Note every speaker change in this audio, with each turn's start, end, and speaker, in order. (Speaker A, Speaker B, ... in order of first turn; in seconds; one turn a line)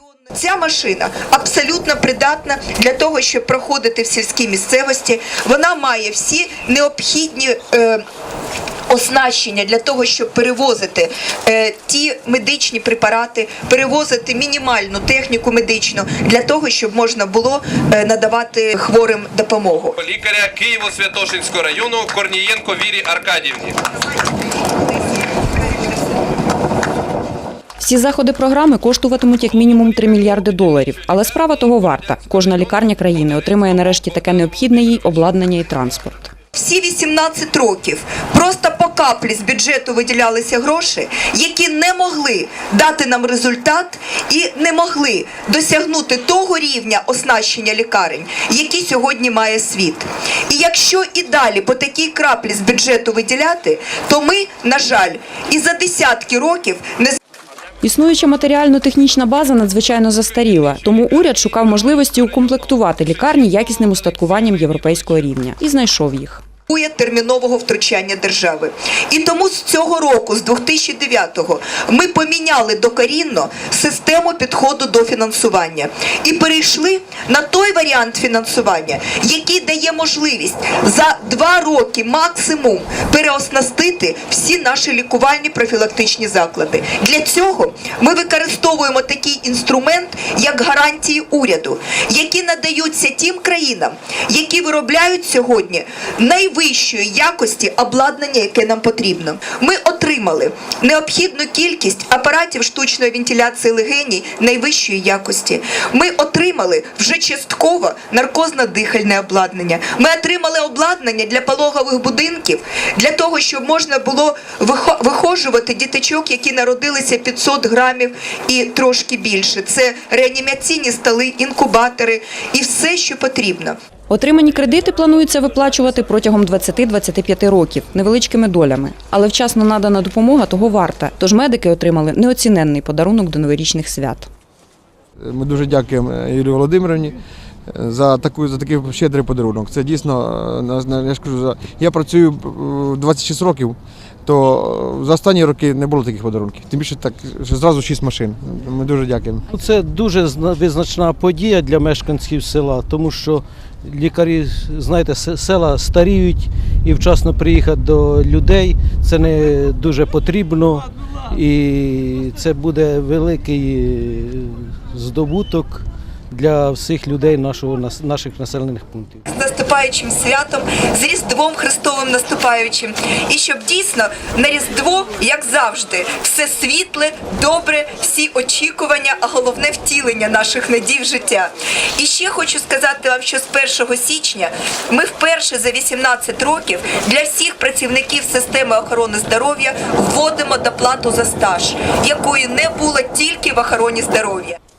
Speaker A: 0.3-8.0
Speaker A: 8.9-20.0
Speaker B: 20.0-23.8
Speaker C: 27.8-36.3
Speaker A: 36.5-57.2
Speaker C: 57.8-66.4
Speaker A: 66.7-123.8
Speaker C: 124.1-134.3
Speaker D: 135.2-137.2
Speaker D: 137.7-149.5
Speaker E: 149.5-169.2
Speaker A: 169.3-194.6